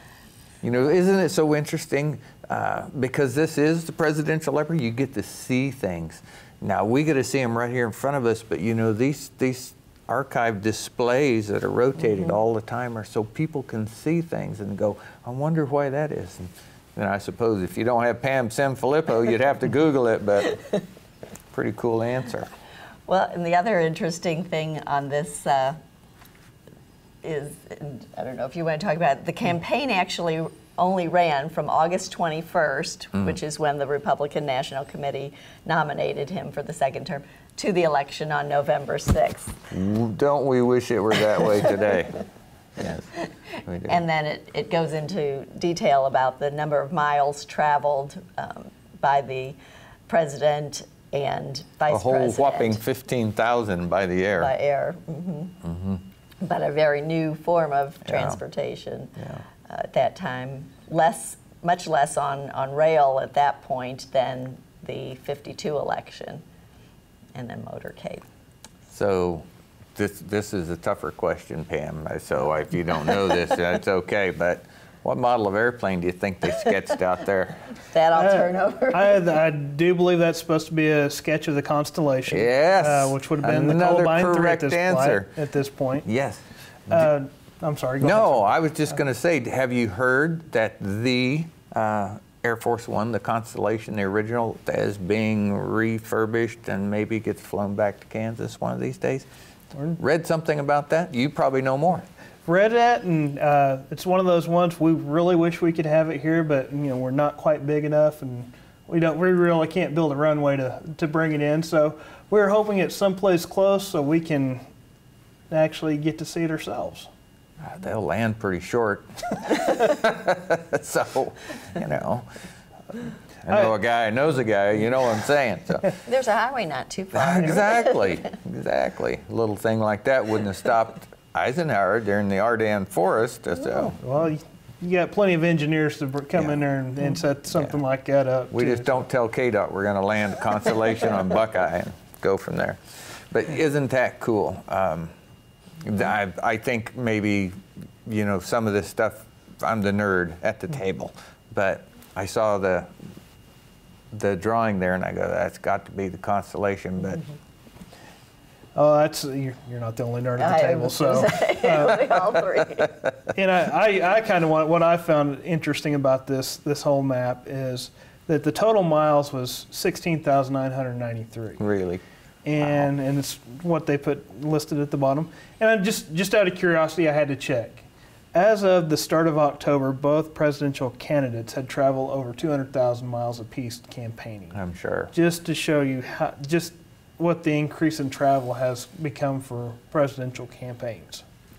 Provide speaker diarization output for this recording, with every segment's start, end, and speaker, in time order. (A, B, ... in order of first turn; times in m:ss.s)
0:00.6-0:20.6 A
0:21.5-0:22.5 A
0:23.1-0:25.8 B
0:27.2-0:39.6 B
0:39.7-0:42.2 A
0:42.8-0:43.1 A
0:43.6-0:44.0 A
0:43.9-0:49.6 B
0:50.1-0:52.8 B
0:51.9-0:54.5 A
0:54.4-0:55.6 B
0:55.6-0:56.0 A
0:56.4-1:06.4 B
0:58.1-0:58.4 A
0:59.2-0:59.4 A
1:07.4-1:08.2 B
1:08.9-1:17.6 A
1:17.9-1:19.2 B
1:18.1-1:26.1 C
1:22.3-1:25.3 A
1:26.0-1:27.0 A
1:26.9-1:28.6 C
1:28.0-1:39.3 A
1:39.7-1:40.0 C
1:40.0-1:42.1 A
1:42.4-1:54.6 C
1:55.5-1:57.1 C
1:57.6-2:02.3 A
2:03.5-2:06.0 A
2:06.0-2:08.1 B
2:07.2-2:14.0 A
2:14.0-2:19.0 C
2:18.5-2:25.1 A
2:25.8-2:32.9 A
2:34.1-2:37.2 A
2:38.8-2:42.1 C
2:40.4-2:43.0 B
2:43.3-2:51.6 C
2:51.6-2:52.0 A
2:52.4-3:04.6 C
2:52.6-2:52.9 A
3:04.5-3:05.1 A
3:05.1-3:11.2 C